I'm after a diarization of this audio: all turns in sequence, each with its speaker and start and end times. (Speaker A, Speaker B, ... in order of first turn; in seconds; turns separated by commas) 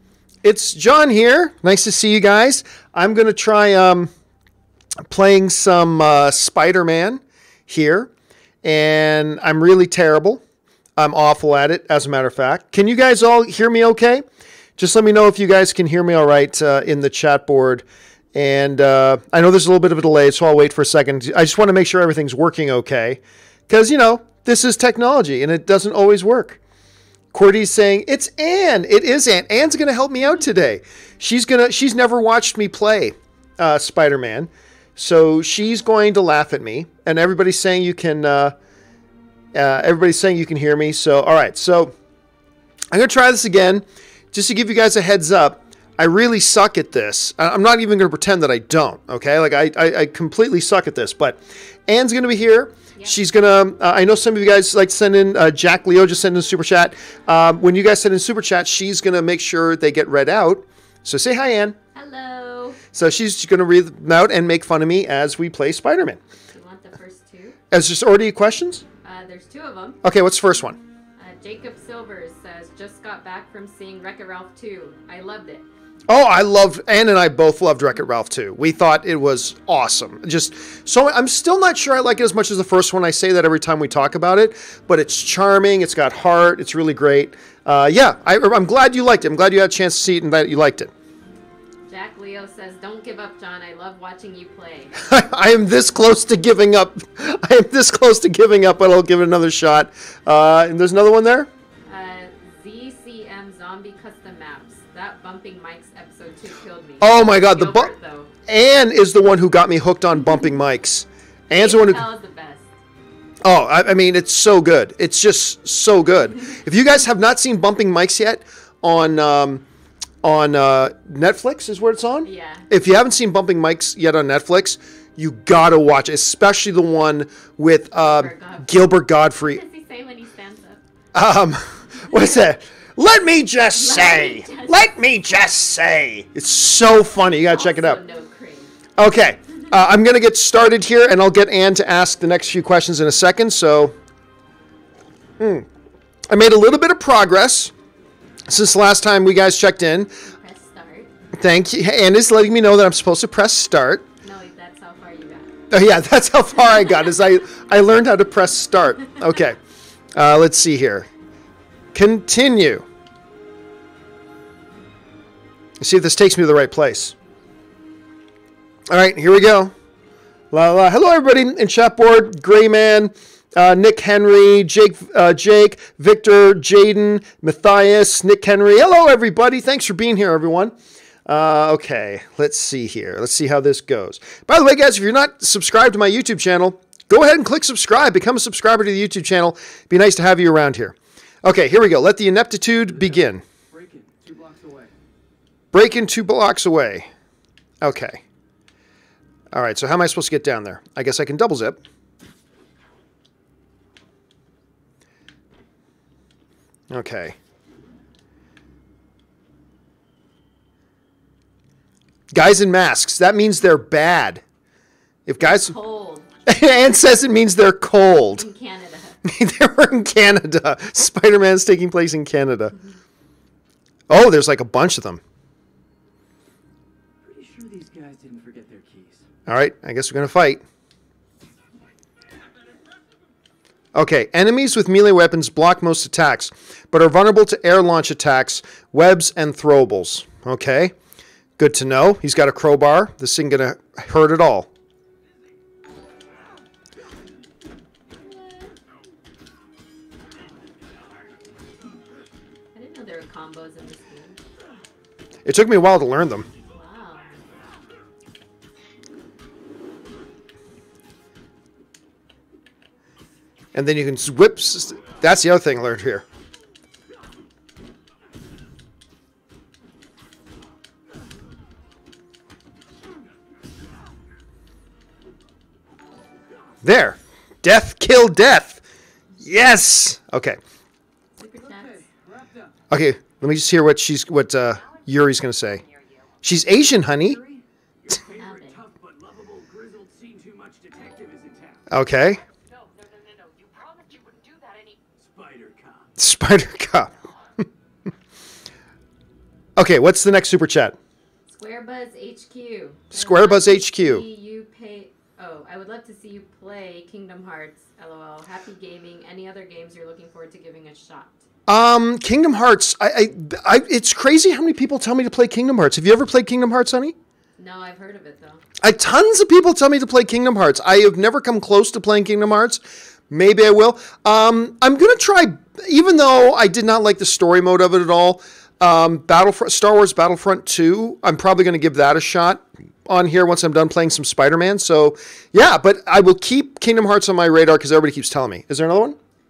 Speaker A: 0.4-4.1, Speaker A: 5.0-8.1, Speaker A: 8.6-10.4, Speaker A: 11.0-14.2, Speaker A: 14.8-26.6, Speaker A: 27.3-38.6, Speaker A: 39.5-41.9, Speaker A: 42.9-61.8, Speaker B: 62.0-62.8, Speaker A: 62.9-66.2, Speaker B: 66.5-67.6, Speaker A: 67.7-68.8, Speaker B: 69.0-70.0, Speaker A: 70.0-70.8, Speaker B: 71.2-75.7, Speaker A: 76.1-90.9, Speaker B: 91.9-95.0, Speaker A: 95.0-101.5, Speaker B: 101.9-108.3, Speaker A: 107.0-107.9, Speaker A: 108.5-112.1, Speaker B: 111.5-112.8, Speaker A: 113.4-119.6, Speaker A: 120.2-129.6, Speaker B: 122.2-122.7, Speaker B: 127.9-130.8, Speaker A: 131.1-138.0, Speaker B: 133.7-134.9, Speaker B: 137.4-138.8, Speaker A: 139.0-143.9, Speaker A: 145.4-145.7, Speaker A: 146.3-147.7, Speaker A: 148.5-150.1, Speaker B: 150.2-151.1, Speaker A: 151.3-154.1, Speaker B: 154.2-155.5, Speaker A: 155.7-159.6, Speaker A: 160.2-161.1, Speaker A: 161.9-162.9, Speaker A: 165.8-167.1, Speaker A: 168.9-169.7, Speaker A: 170.5-180.8, Speaker A: 181.3-193.4, Speaker C: 192.9-194.9, Speaker A: 195.7-197.1, Speaker A: 197.8-198.2, Speaker A: 199.5-201.8, Speaker A: 206.9-207.4, Speaker A: 212.3-214.4, Speaker A: 215.3-215.8, Speaker B: 215.4-216.3, Speaker A: 216.5-218.5, Speaker B: 218.4-219.2, Speaker A: 219.2-222.8, Speaker A: 224.1-225.2, Speaker C: 227.2-229.3, Speaker A: 229.5-230.6, Speaker A: 233.9-240.9, Speaker A: 241.6-244.7, Speaker B: 252.7-254.4, Speaker A: 255.4-256.5, Speaker B: 256.7-257.4, Speaker A: 263.7-266.2, Speaker A: 276.8-278.8, Speaker A: 279.4-280.6, Speaker B: 281.4-282.1, Speaker C: 281.6-282.8, Speaker A: 282.9-285.8, Speaker D: 284.7-286.4, Speaker A: 286.4-287.4, Speaker C: 287.1-291.9, Speaker B: 288.3-288.8, Speaker A: 291.9-292.4, Speaker D: 292.3-295.0, Speaker C: 295.2-296.1, Speaker A: 296.2-297.1, Speaker A: 299.8-301.0, Speaker B: 301.5-311.4, Speaker A: 303.1-304.2, Speaker A: 311.7-317.1, Speaker B: 317.6-318.6, Speaker A: 318.8-339.2